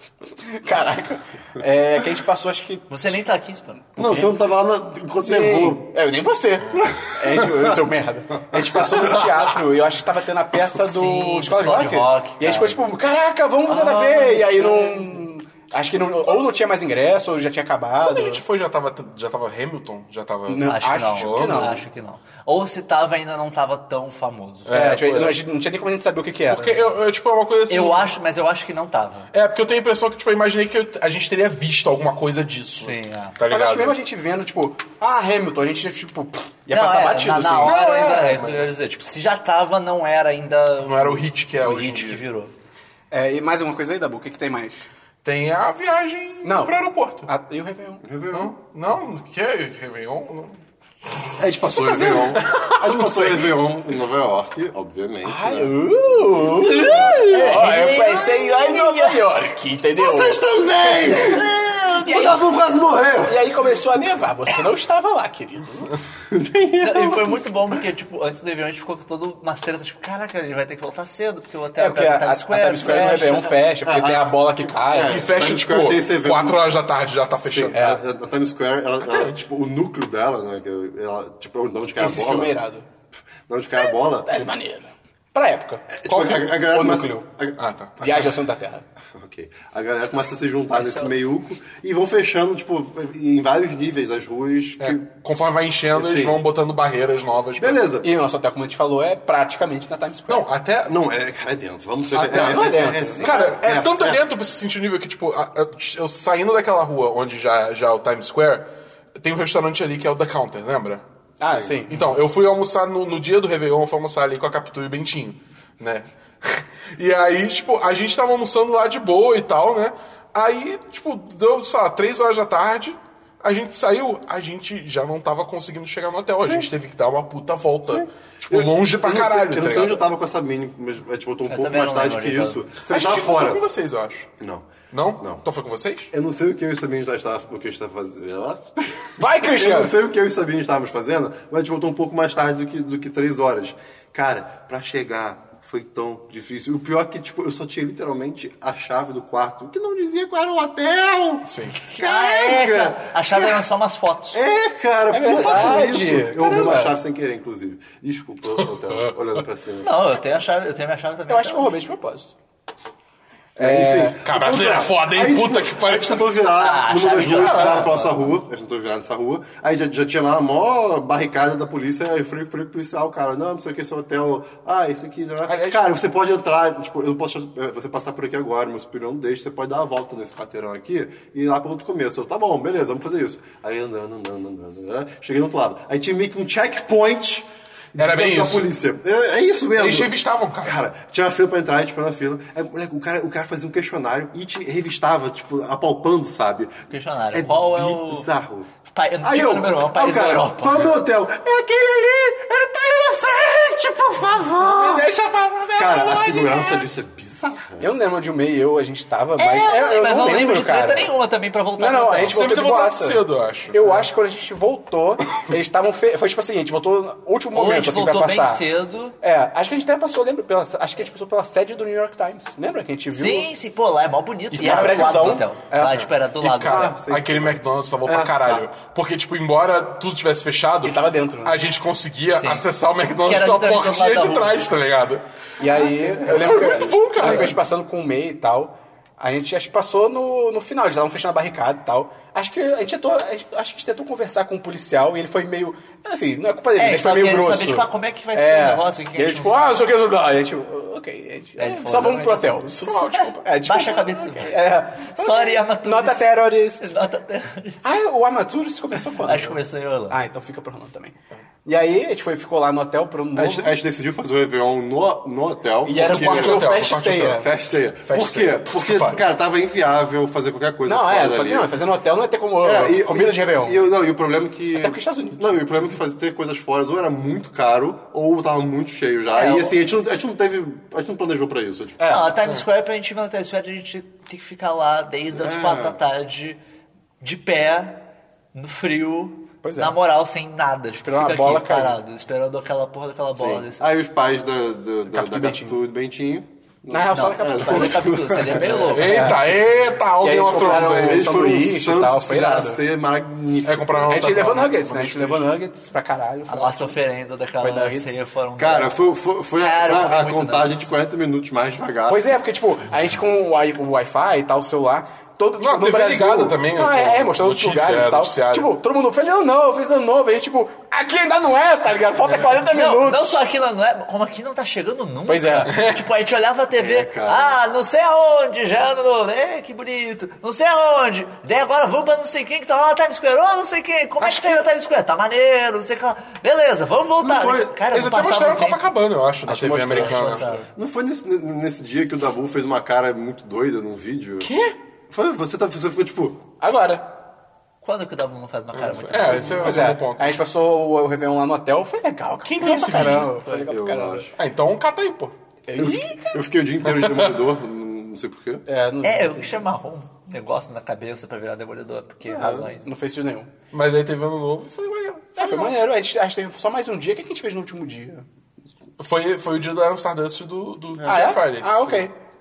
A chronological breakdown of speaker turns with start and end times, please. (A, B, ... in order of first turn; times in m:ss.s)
0:00.4-0:02.9 A
0:02.9-0:04.0 B
0:04.0-0:05.8 C
0:04.0-0:04.3 A
0:05.2-0:18.4 A
0:06.6-0:07.0 D
0:07.0-0:07.8 C
0:08.9-0:09.4 D
0:10.8-0:12.9 B
0:13.6-0:15.2 B
0:18.0-0:21.8 D
0:20.5-0:21.8 A
0:20.6-0:24.8 B
0:24.6-0:25.4 D
0:24.7-0:26.9 A
0:26.5-0:28.1 D
0:27.7-0:29.3 B
0:29.3-0:34.0 D
0:32.8-0:33.4 B
0:33.5-0:38.7 A
0:36.7-0:42.5 B
0:37.6-0:38.4 D
0:40.8-0:42.2 D
0:43.1-0:44.9 A
0:45.2-0:47.3 D
0:46.4-0:48.0 A
0:48.0-0:48.5 C
0:48.3-0:50.6 D
0:51.1-0:53.7 D
0:51.4-0:58.1 C
0:55.2-1:02.5 A
0:57.0-0:59.2 B
1:00.0-1:03.4 C
1:03.2-1:05.9 A
1:06.3-1:07.5 C
1:06.8-1:13.6 B
1:11.8-1:15.3 A
1:13.8-1:16.8 C
1:14.9-1:18.0 D
1:17.4-1:22.6 C
1:17.7-1:18.0 A
1:19.0-1:19.3 D
1:22.0-1:22.8 A
1:23.5-1:24.3 C
1:24.2-1:27.2 A
1:25.9-1:28.2 C
1:27.6-1:28.2 D
1:28.0-1:28.8 A
1:29.1-1:35.0 C
1:30.7-1:31.2 B
1:34.8-1:37.8 D
1:35.9-1:36.4 C
1:37.6-1:38.1 C
1:38.0-1:40.5 A
1:40.3-1:40.9 D
1:40.8-1:44.2 C
1:42.1-1:48.7 D
1:42.3-1:43.5 A
1:49.2-2:10.1 D
1:51.4-1:52.0 A
2:06.4-2:06.7 C
2:07.8-2:13.6 C
2:11.4-2:12.6 B
2:12.9-2:14.3 D
2:14.4-2:14.7 C
2:14.9-2:16.1 D
2:16.1-2:33.6 C
2:19.2-2:19.9 A
2:31.4-2:31.8 D
2:31.9-2:34.4 B
2:34.3-2:39.9 C
2:35.1-2:37.0 A
2:38.5-2:39.1 D
2:39.8-2:41.7 B
2:41.3-2:42.3 A
2:43.6-2:44.2 A
2:43.6-3:16.7 C
2:44.2-2:46.4 D
2:46.6-2:48.4 B
2:47.2-2:47.9 D
2:55.4-2:56.0 D
3:08.0-3:08.7 D
3:09.7-3:10.8 D
3:16.9-3:18.3 B
3:17.3-3:18.7 C
3:18.9-3:20.9 B
3:19.2-3:25.1 C
3:24.6-3:26.9 D
3:25.8-3:27.9 C
3:27.8-3:31.1 A
3:29.4-3:32.6 B
3:31.8-3:38.6 A
3:32.3-3:34.0 D
3:37.5-3:39.2 B
3:39.2-3:43.5 A
3:43.1-3:46.9 B
3:44.5-3:45.9 A
3:44.6-3:55.2 D
3:46.6-3:48.6 C
3:50.8-3:51.6 A
3:52.3-3:52.6 B
3:53.2-3:54.6 B
3:55.6-4:16.9 A
3:56.2-3:57.6 D
3:56.4-3:57.5 C
4:06.8-4:09.6 B
4:11.6-4:17.8 B
4:12.8-4:13.4 D
4:17.8-4:23.7 A
4:19.2-4:20.2 B
4:23.4-4:26.7 C
4:25.8-4:27.5 A
4:26.0-4:29.2 D
4:27.2-4:31.7 C
4:30.8-4:33.9 A
4:32.6-4:42.1 C
4:34.7-4:35.6 A
4:39.3-4:39.8 B
4:42.0-4:42.4 A
4:42.1-4:46.6 B
4:45.3-4:46.0 C
4:47.2-4:53.8 B
4:49.6-4:50.0 A
4:51.0-4:52.0 A
4:53.4-4:59.0 C
4:55.1-4:55.8 A
4:56.9-4:59.6 A
4:57.1-4:59.4 B
4:58.9-5:01.3 D
5:00.2-5:02.8 A
5:01.0-5:04.4 C
5:03.6-5:05.5 D
5:04.1-5:07.0 A
5:06.5-5:09.0 B
5:07.6-5:08.2 A
5:08.6-5:12.2 C
5:09.6-5:11.0 B
5:12.1-5:23.4 A
5:15.6-5:18.7 D
5:22.2-5:22.6 D
5:22.7-5:38.8 B
5:25.3-5:25.7 A
5:25.6-5:26.1 D
5:26.7-5:27.6 C
5:34.2-5:34.6 D
5:37.2-5:37.8 C
5:37.9-5:40.6 D
5:39.4-5:40.4 A
5:39.9-5:40.6 B
5:40.7-5:44.5 C
5:44.4-5:44.8 D
5:45.1-5:46.4 C
5:46.6-5:47.1 A
5:47.8-5:49.9 B
5:48.7-5:50.4 D
5:49.6-5:54.3 A
5:52.4-5:53.4 D
5:53.4-5:54.3 C
5:54.4-5:55.3 D
5:55.7-5:56.4 A
5:55.8-5:58.6 C
5:56.8-5:57.5 D
5:58.7-5:59.6 A
5:59.0-6:02.9 B
6:02.3-6:02.6 C
6:02.5-6:03.5 A
6:03.7-6:05.8 D
6:05.4-6:08.2 A
6:09.0-6:12.1 D
6:11.0-6:11.3 C
6:11.0-6:12.2 A